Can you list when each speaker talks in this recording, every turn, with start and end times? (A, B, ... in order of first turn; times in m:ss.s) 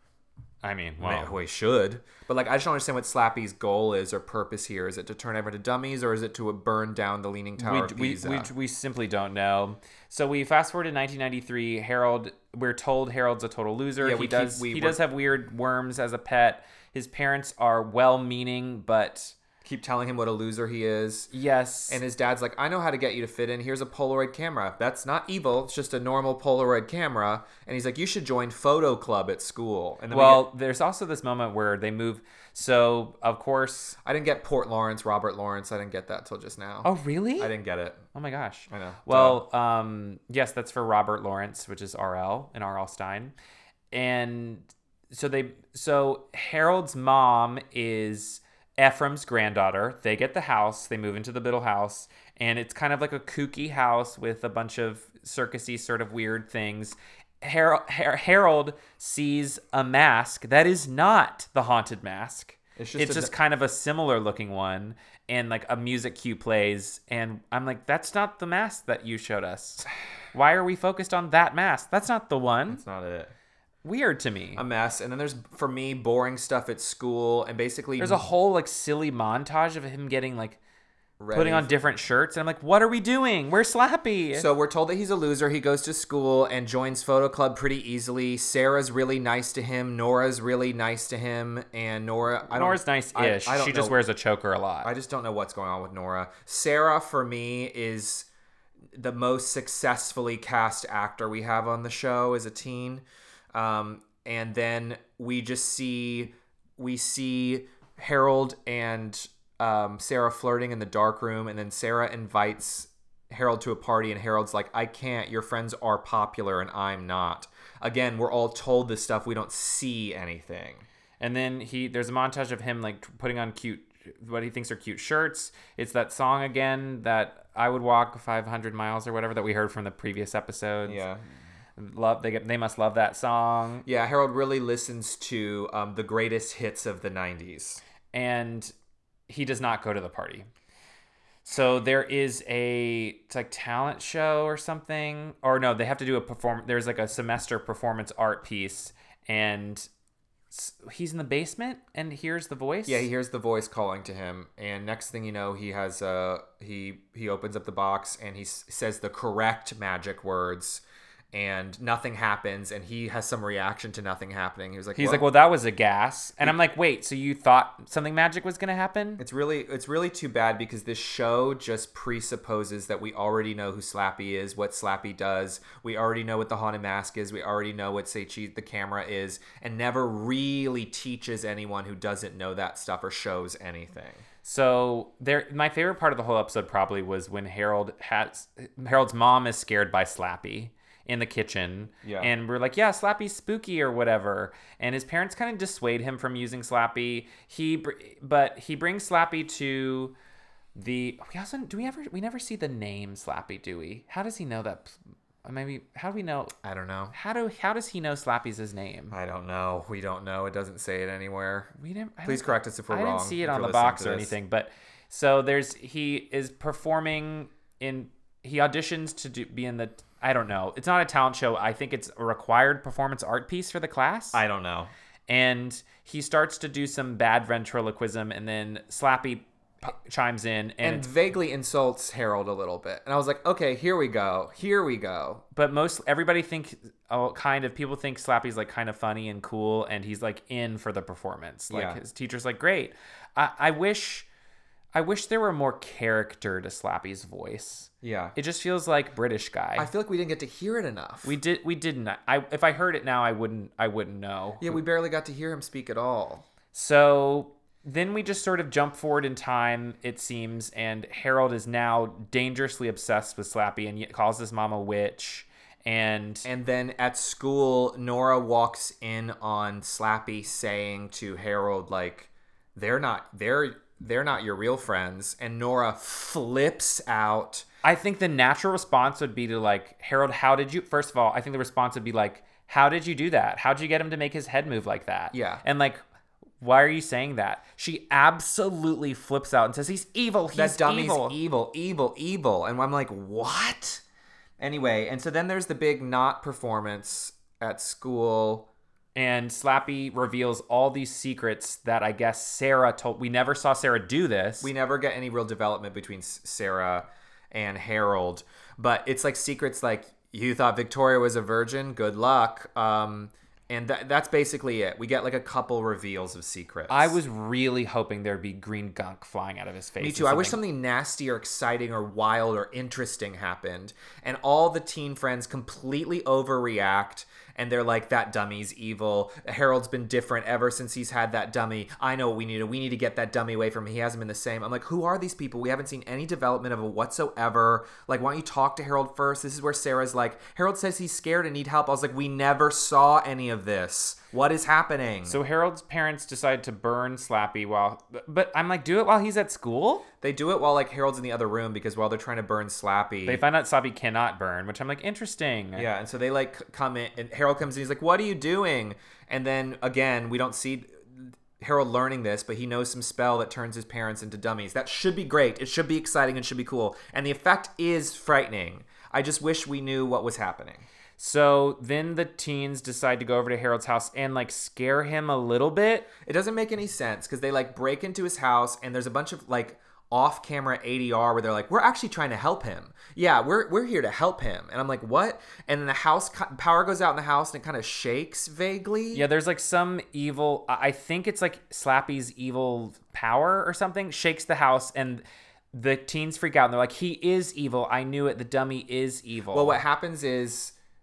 0:00.6-0:01.3 A
0:01.0-0:08.5 B
0:07.6-0:19.4 A
0:14.0-0:15.0 B
0:19.6-0:21.3 B
0:21.3-0:22.0 A
0:21.9-0:30.5 B
0:30.1-0:34.0 A
0:34.0-0:38.0 B
0:36.8-0:37.5 A
0:38.1-0:43.3 A
0:38.7-0:39.4 B
0:43.9-1:12.8 A
1:02.8-1:03.3 B
1:12.7-1:13.3 B
1:13.8-1:14.6 A
1:14.6-1:18.2 B
1:18.0-1:20.6 A
1:21.2-1:21.8 B
1:21.3-1:24.5 A
1:24.4-1:34.0 B
1:32.5-1:34.9 A
1:34.8-1:38.3 B
1:38.9-2:00.8 B
2:01.2-2:11.0 A
2:10.8-2:11.2 B
2:11.8-2:13.8 A
2:13.8-2:17.8 B
2:18.1-2:18.7 A
2:19.3-2:20.5 A
2:21.4-2:29.9 A
2:30.5-2:33.1 A
2:32.9-2:45.2 B
2:45.0-2:49.2 A
2:49.2-3:04.2 B
3:04.4-3:20.2 A
3:12.0-3:12.3 B
3:20.8-3:26.5 A
3:26.6-3:27.2 B
3:27.1-3:29.2 A
3:29.1-3:31.7 B
3:31.8-3:44.4 A
3:32.2-3:34.4 B
3:44.3-3:44.9 B
3:45.3-3:51.1 A
3:50.8-3:55.4 B
3:55.5-4:04.3 A
4:01.7-4:02.0 B
4:04.9-4:09.9 A
4:08.0-4:08.4 B
4:09.8-4:11.4 B
4:11.2-4:14.8 A
4:14.6-4:16.5 B
4:16.7-4:26.5 A
4:26.4-4:37.7 B
4:37.8-4:46.0 A
4:45.3-4:45.6 B
4:46.6-4:51.4 A
4:50.5-4:54.0 B
4:54.6-4:58.7 B
4:59.2-5:04.7 A
5:04.6-5:17.2 B
5:16.9-5:20.6 A
5:20.0-5:45.4 B
5:45.3-5:50.1 A
5:50.2-5:53.4 B
5:53.2-5:55.9 A
5:55.8-6:10.9 B
6:11.2-6:16.1 A
6:16.2-6:29.3 B
6:29.1-6:39.8 A
6:39.5-6:40.7 B